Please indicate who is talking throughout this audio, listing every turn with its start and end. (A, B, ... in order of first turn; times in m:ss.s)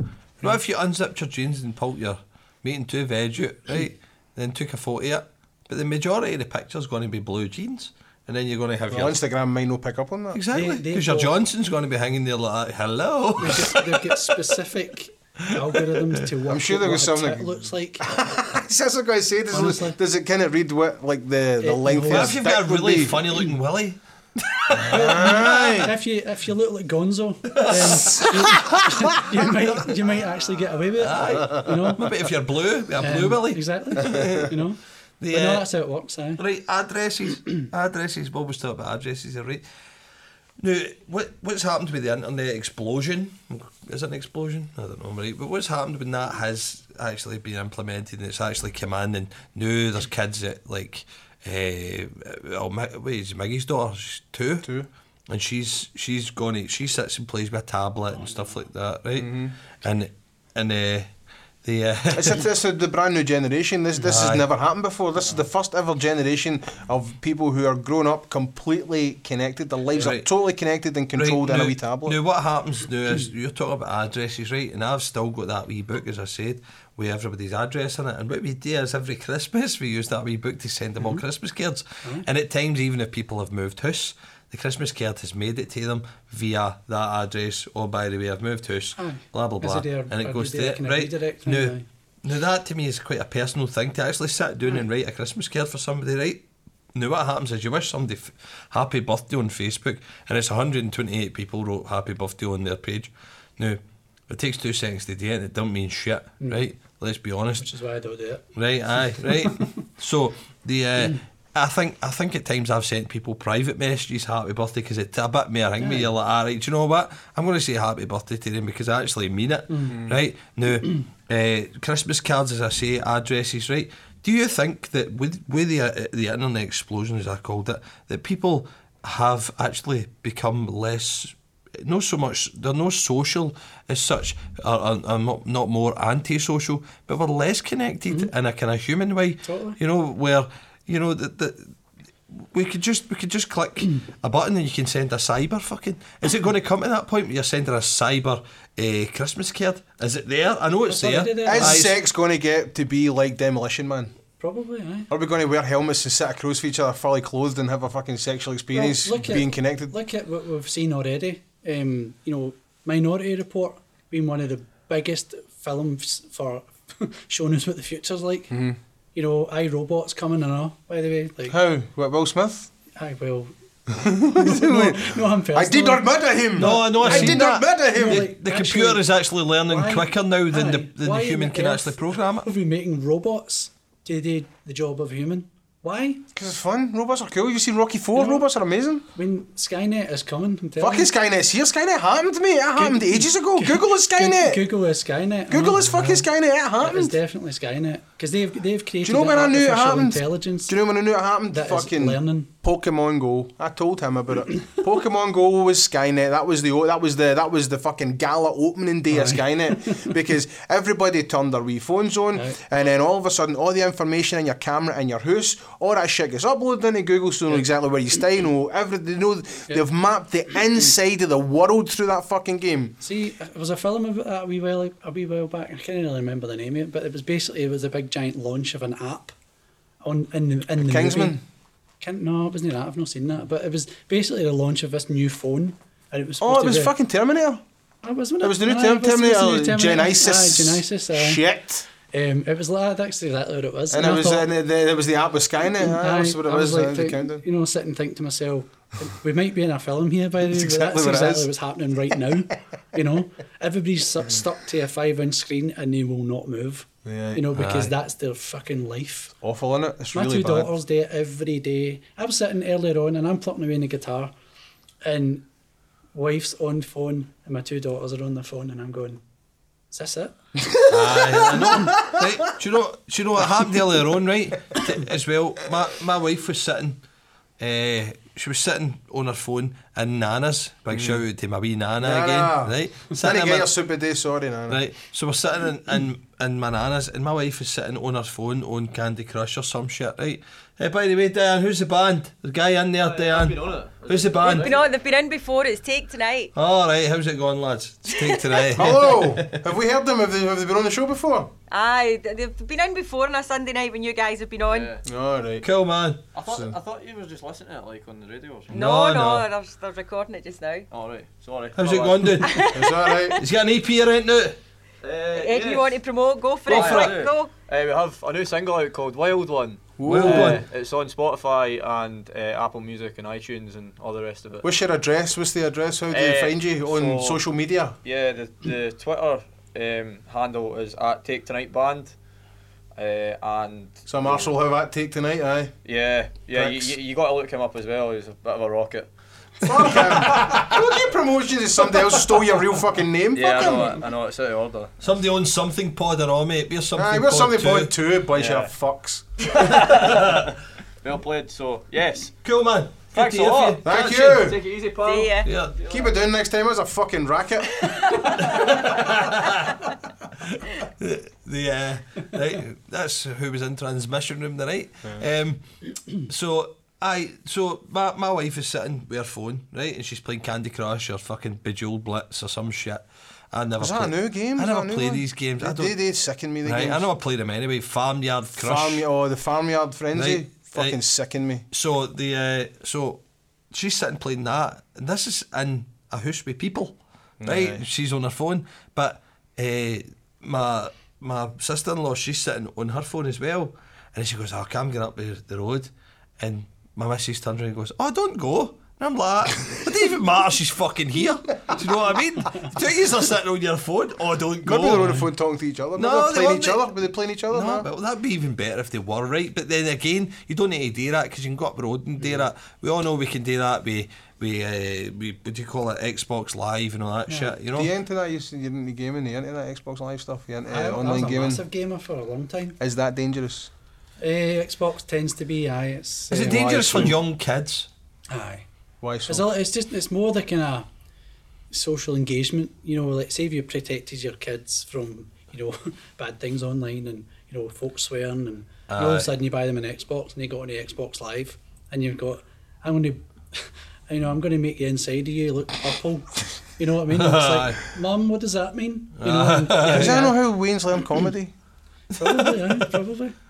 0:00.4-0:09.2 A
0:08.9-0:10.4 B
0:10.3-0:14.4 A
0:10.5-0:11.3 C
0:13.4-0:18.1 C
0:15.7-0:16.1 A
0:16.4-0:23.3 B
0:19.5-0:20.0 C
0:21.6-0:22.4 C
0:22.1-0:25.9 A
0:24.7-0:25.9 B
0:24.9-0:32.1 C
0:27.5-0:28.5 A
0:31.0-0:34.6 A
0:33.0-0:36.4 C
0:35.2-0:35.6 A
0:36.4-0:39.6 A
0:40.6-0:54.7 A
0:54.6-0:54.9 B
0:55.3-1:02.4 A
0:59.2-0:59.5 B
1:02.1-1:12.2 B
1:04.0-1:04.5 A
1:09.9-1:10.3 A
1:11.2-1:47.7 A
1:29.0-1:31.8 C
1:46.4-1:46.7 C
1:47.6-1:48.5 C
1:48.6-2:21.7 A
1:55.8-1:56.1 C
1:59.7-2:00.0 C
1:59.9-2:00.2 B
2:19.4-2:19.8 C
2:22.3-2:31.9 A
2:30.9-2:31.8 C
2:31.4-2:34.1 B
2:34.4-2:35.1 C
2:35.1-2:40.0 B
2:38.7-2:48.6 C
2:48.5-2:48.8 B
2:49.2-2:51.6 C
2:51.5-2:52.7 B
2:53.0-2:53.5 C
2:53.9-2:58.3 B
2:54.1-2:56.0 C
2:56.6-2:59.1 C
2:56.6-3:02.5 A
2:59.6-3:06.2 C
3:06.3-3:09.1 B
3:08.2-3:08.5 C
3:09.1-3:11.1 C
3:10.8-3:14.7 B
3:12.8-3:16.2 C
3:15.5-3:17.2 B
3:16.8-3:20.8 C
3:19.0-3:43.0 B
3:21.5-3:22.5 C
3:29.1-3:30.1 C
3:32.4-3:32.6 C
3:43.0-3:49.3 C
3:50.0-3:51.4 C
3:50.8-3:51.4 B
3:52.0-3:56.9 C
3:56.4-3:57.6 B
3:58.0-4:01.4 C
3:58.4-4:01.9 B
4:02.1-4:04.5 C
4:03.9-4:07.4 B
4:05.8-4:19.4 C
4:10.4-4:11.5 B
4:17.0-4:17.5 B
4:17.5-4:17.9 A
4:19.4-4:20.7 B
4:20.1-4:24.3 C
4:25.0-4:25.5 C
4:26.1-4:29.2 C
4:29.9-4:30.4 C
4:30.6-4:32.3 B
4:30.9-4:37.0 A
4:37.6-4:43.7 A
4:40.9-4:41.2 B
4:42.0-4:44.8 B
4:44.7-4:54.7 A
4:53.0-4:54.9 D
4:54.4-4:56.5 E
4:56.6-4:59.6 A
4:58.1-4:58.7 E
4:58.7-5:01.5 B
5:01.7-5:04.9 E
5:04.7-5:05.0 D
5:05.0-5:05.6 B
5:05.6-5:06.3 A
5:06.3-5:08.8 D
5:06.5-5:06.8 B
5:08.7-5:10.9 E
5:08.7-5:09.4 A
5:10.9-5:12.4 D
5:11.8-5:14.6 A
5:12.4-5:13.3 E
5:12.7-5:13.4 B
5:15.0-5:16.0 D
5:15.3-5:17.5 E
5:16.7-5:24.7 D
5:16.7-5:17.1 A
5:20.0-5:20.6 B
5:20.0-5:20.6 A
5:24.6-5:28.0 B
5:26.1-5:27.4 D
5:28.0-5:32.2 D
5:33.0-5:34.5 D
5:34.1-5:35.7 B
5:35.8-5:39.1 D
5:36.5-5:37.0 B
5:39.6-5:44.0 B
5:43.3-5:44.9 D
5:45.0-5:47.9 A
5:46.9-5:49.7 B
5:48.3-5:48.7 D
5:49.6-5:50.5 D
5:49.8-5:50.5 A
5:51.0-5:52.4 D
5:52.4-5:54.5 A
5:53.1-5:56.1 D
5:53.8-5:54.6 B
5:55.0-5:55.5 E
5:55.4-5:55.8 A
5:55.9-5:57.9 B
5:57.8-5:58.4 E
5:58.4-6:15.9 A
6:13.8-6:17.1 B
6:16.6-6:19.0 A
6:18.6-6:21.6 B
6:20.2-6:21.0 A
6:21.7-6:45.2 A
6:27.4-6:27.8 B
6:44.6-6:47.9 B
6:46.0-6:46.8 A
6:47.5-6:57.9 A
6:57.3-6:57.6 C
6:57.7-7:01.6 B
7:00.7-7:02.8 C
7:02.8-7:03.7 B
7:04.2-7:06.7 C
7:06.3-7:07.9 A
7:06.3-7:07.2 B
7:08.3-7:08.7 C
7:09.0-7:09.5 B
7:09.3-7:10.9 C
7:11.7-7:30.4 C
7:18.9-7:19.3 A
7:27.1-7:27.8 A
7:29.2-7:30.3 A
7:29.8-7:31.5 B
7:32.1-7:33.3 C
7:32.2-7:32.9 A